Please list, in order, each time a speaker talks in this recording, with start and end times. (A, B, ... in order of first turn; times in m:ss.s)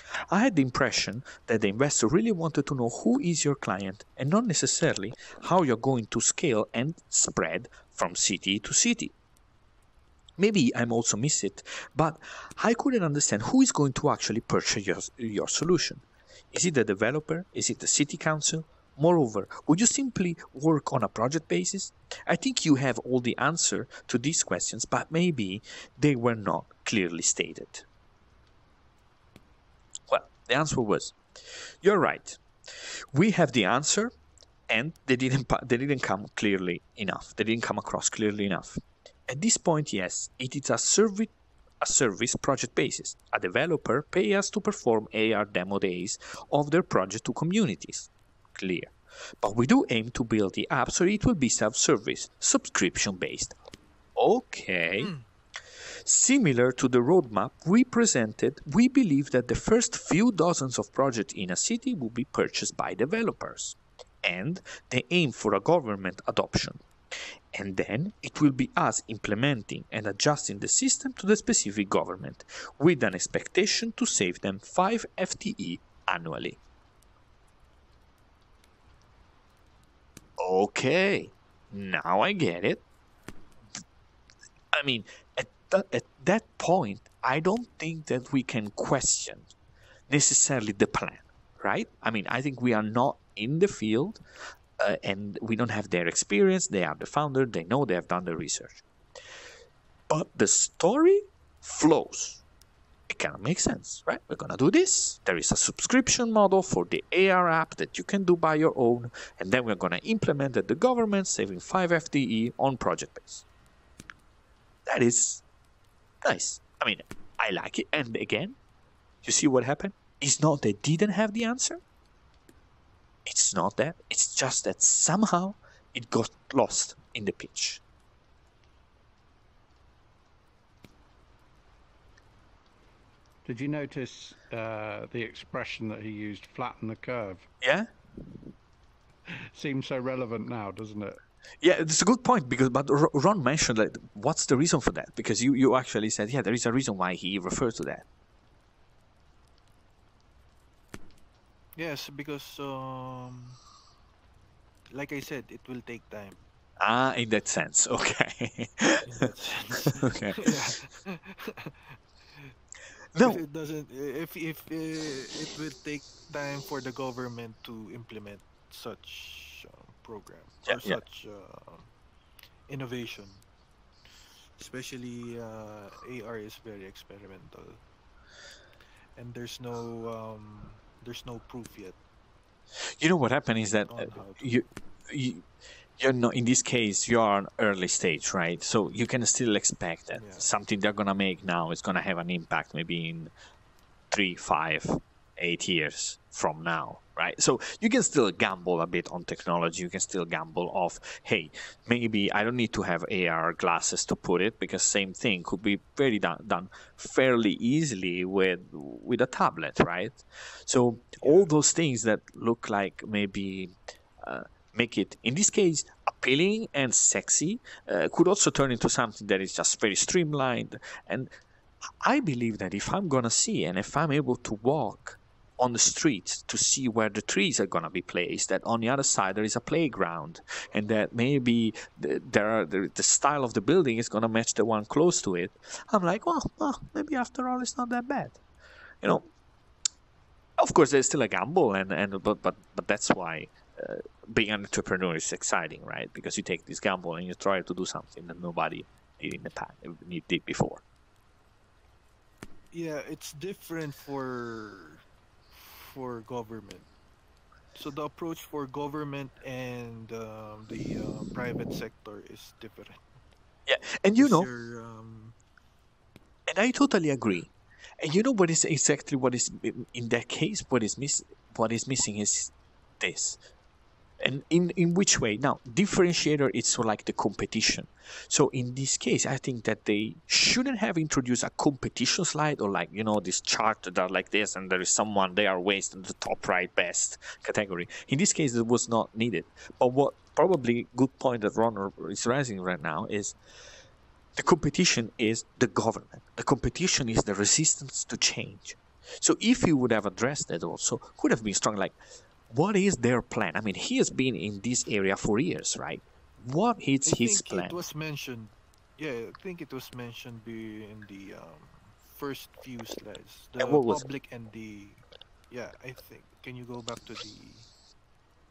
0:00.3-0:09.1 A
0:10.4-0:27.8 A
0:30.1-0:31.2 A
0:31.8-0:32.4 A
0:33.1-0:34.1 A
0:34.7-0:53.6 A
0:54.2-0:55.1 A
0:55.0-0:55.2 B
0:56.0-1:06.8 A
1:07.5-1:16.6 A
1:20.4-1:22.8 A
1:24.7-1:29.5 A
1:30.1-1:34.2 A
1:34.8-1:38.8 A
1:40.1-1:42.4 A
1:43.1-1:53.4 A
1:54.9-1:55.4 A
1:56.2-1:58.6 A
1:59.2-2:01.8 A
2:03.2-2:07.8 A
2:13.4-2:17.5 C
2:17.6-2:17.9 A
2:19.5-2:21.2 C
2:21.6-2:28.0 A
2:31.8-2:33.6 B
2:34.9-2:36.4 B
2:36.8-2:39.1 A
2:39.0-2:42.5 B
2:40.0-2:40.5 A
2:43.1-2:43.4 A
2:43.2-2:51.9 B
2:50.6-2:51.0 A
2:52.7-2:53.4 B
2:54.6-2:57.8 B
2:59.1-3:02.0 B
3:03.0-3:05.4 A
3:03.9-3:04.6 B
3:06.0-3:13.3 A
3:10.1-3:10.5 B
3:14.1-3:41.3 A
3:31.2-3:31.5 B
3:42.0-3:58.4 A
3:59.0-3:59.3 A
4:00.6-4:10.8 A
4:12.7-4:16.9 B
4:17.7-4:23.0 B
4:23.7-4:24.5 A
4:24.2-4:25.4 B
4:26.5-4:33.4 A
4:34.2-4:53.4 A
4:54.4-5:02.0 A
5:02.5-5:07.8 A
5:07.0-5:17.7 B
5:13.6-5:14.0 A